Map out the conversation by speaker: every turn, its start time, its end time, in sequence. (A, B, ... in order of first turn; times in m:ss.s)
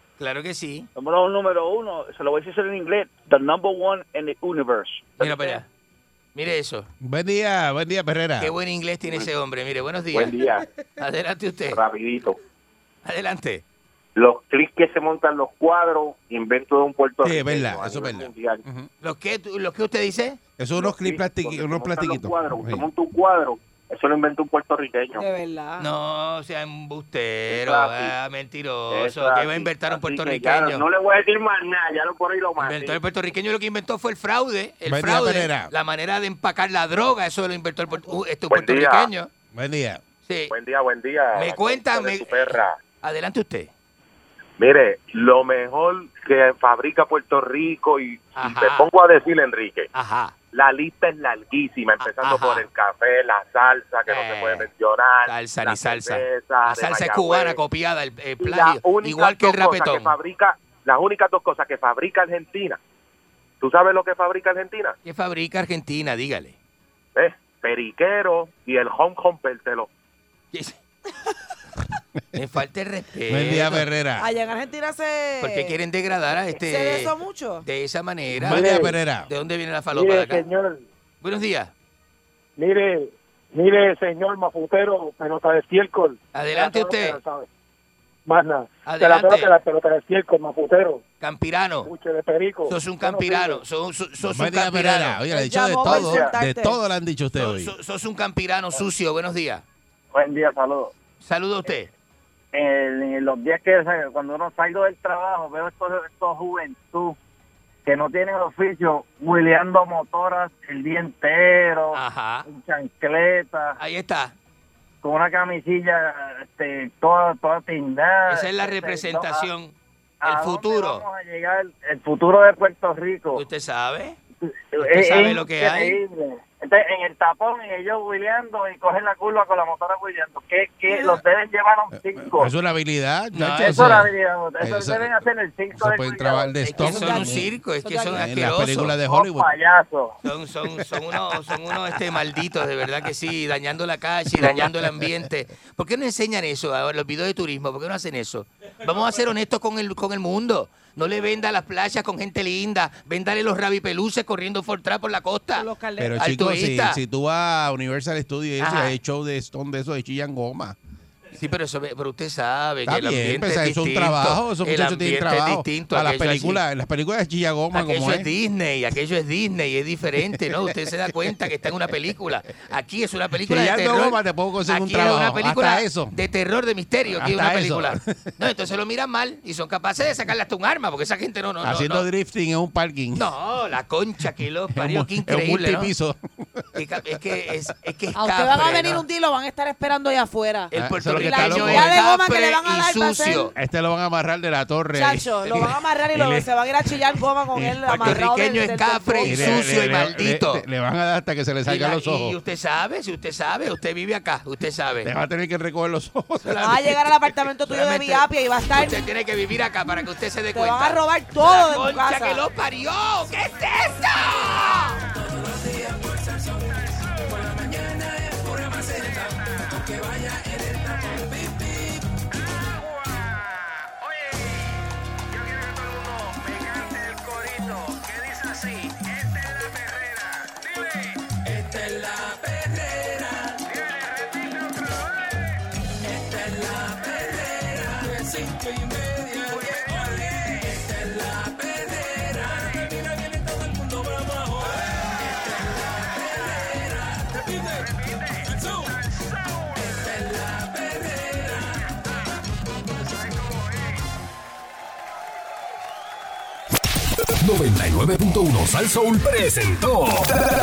0:00.2-0:00.9 A
0:00.9-0:05.2 B
0:05.2-0:05.7 A
0:06.3-0:06.9 A
0:07.0-0:08.5 C
0:08.4-0:10.4 A
0:10.1-0:10.6 D
0:11.0-0:11.8 A
0:11.7-0:12.3 D
0:13.0-0:13.6 A
0:14.2-0:18.6 D
0:17.2-0:18.9 C
0:19.0-0:20.4 A
0:20.6-0:22.9 C
0:20.8-0:25.0 D
0:25.1-0:25.9 E
0:25.8-0:30.9 A
0:27.5-0:28.1 D
0:28.9-0:29.2 D
0:29.9-0:30.8 D
0:32.6-0:39.3 A
0:34.9-0:35.7 C
0:38.5-0:39.1 D
0:39.5-0:40.0 C
0:40.2-0:40.5 A
0:40.5-0:42.8 D
0:41.3-0:43.7 A
0:44.6-0:49.9 D
0:48.4-0:48.9 A
0:49.9-0:50.4 A
0:50.5-0:57.6 D
0:52.0-0:52.7 A
0:54.0-0:54.7 A
0:55.2-1:00.1 A
0:58.4-1:02.8 D
1:03.6-1:05.0 D
1:05.0-1:06.6 A
1:07.2-1:09.9 D
1:12.3-1:13.9 A
1:13.3-1:14.3 C
1:14.2-1:15.7 E
1:15.4-1:17.1 A
1:16.6-1:17.6 E
1:17.6-1:20.5 A
1:18.3-1:19.3 C
1:18.5-1:19.0 F
1:19.9-1:20.8 F
1:21.2-1:21.7 A
1:22.6-1:27.5 F
1:26.3-1:27.2 A
1:28.2-1:31.0 F
1:28.9-1:29.6 A
1:31.2-1:31.9 A
1:31.8-1:32.8 F
1:32.6-1:35.2 A
1:33.3-1:33.6 F
1:34.2-1:37.7 C
1:35.3-1:36.8 E
1:35.8-1:36.1 A
1:37.4-1:39.6 A
1:40.1-1:40.9 G
1:41.2-1:41.9 A
1:42.5-1:47.2 G
1:47.8-1:53.8 G
1:51.9-1:52.4 A
1:53.8-1:54.3 A
1:55.0-1:59.5 G
1:58.3-2:01.0 A
2:00.2-2:03.4 G
2:03.3-2:04.2 A
2:04.7-2:12.5 G
2:04.8-2:06.0 A
2:12.2-2:15.2 C
2:13.3-2:14.1 A
2:13.6-2:16.6 G
2:15.7-2:17.5 C
2:16.6-2:19.0 A
2:16.8-2:18.2 E
2:18.1-2:19.5 C
2:19.0-2:20.2 G
2:20.2-2:37.0 A
2:24.4-2:25.0 C
2:35.5-2:36.2 E
2:36.0-2:40.8 C
2:38.6-2:38.9 A
2:41.3-2:46.6 A
2:42.9-2:48.3 C
2:47.7-3:02.1 A
2:53.4-2:56.2 C
2:57.1-2:58.3 C
3:01.6-3:03.3 C
3:03.2-3:05.9 A
3:04.7-3:06.7 C
3:06.7-3:09.0 A
3:08.2-3:13.5 E
3:10.7-3:13.5 A
3:10.7-3:12.0 C
3:13.5-3:16.5 C
3:14.9-3:19.8 E
3:17.5-3:18.2 C
3:17.9-3:20.6 A
3:19.2-3:22.3 C
3:21.6-3:25.1 A
3:25.0-3:26.9 C
3:26.4-3:27.0 A
3:26.6-3:29.0 E
3:27.6-3:35.0 A
3:30.5-3:32.4 E
3:35.0-3:42.2 H
3:46.2-3:50.5 H
3:51.3-3:53.6 H
3:55.9-4:09.0 H
4:09.8-4:11.9 H
4:17.4-4:20.4 I